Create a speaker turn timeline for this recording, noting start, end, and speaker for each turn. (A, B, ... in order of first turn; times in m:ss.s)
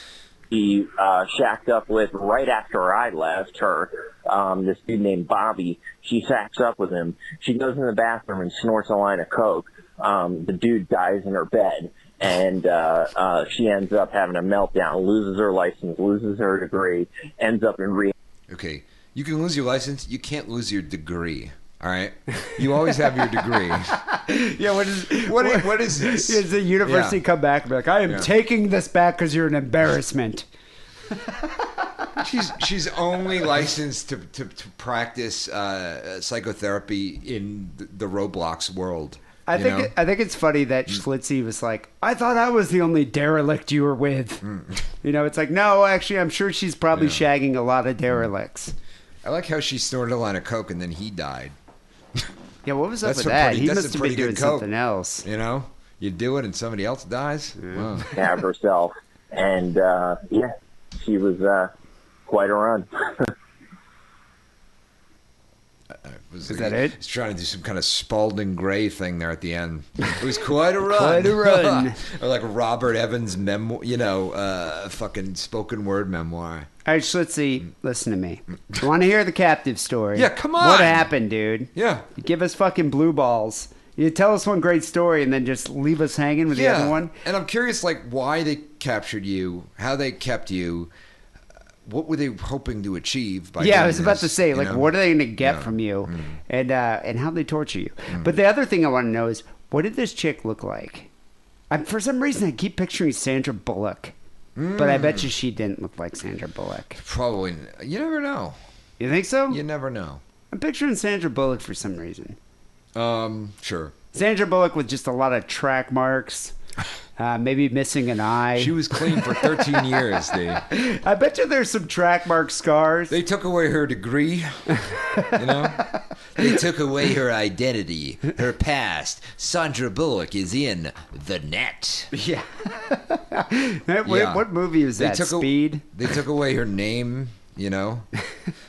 0:00.5-0:18.1 A
0:18.5-0:24.0 B
0:24.0-0:30.5 C
0:25.1-0:27.2 B
0:28.0-0:28.3 B
0:32.2-0:39.9 B
0:39.5-0:44.4 C
0:44.4-0:44.9 B
0:45.0-0:48.8 C
0:46.9-0:47.3 B
0:49.2-0:51.6 B
0:52.6-0:55.2 C
0:53.0-0:54.7 B
0:55.2-0:58.1 B
0:58.1-1:01.7 A
1:02.3-1:03.3 A
1:05.9-1:16.7 B
1:06.5-1:07.0 C
1:10.8-1:12.0 C
1:16.8-1:27.1 C
1:20.2-1:21.1 B
1:21.8-1:22.1 B
1:26.5-1:30.9 B
1:31.9-1:36.4 B
1:33.6-1:41.1 C
1:41.7-1:44.1 C
1:44.6-1:45.3 B
1:44.8-1:47.0 C
1:47.0-1:48.6 B
1:49.0-1:49.6 C
1:49.5-1:50.2 B
1:50.5-1:52.4 C
1:53.0-1:54.0 B
1:54.1-1:56.6 C
1:57.2-1:59.9 C
1:58.6-2:00.6 B
2:00.6-2:03.2 C
2:03.1-2:12.1 B
2:05.0-2:06.5 C
2:12.1-2:15.9 C
2:14.0-2:18.1 B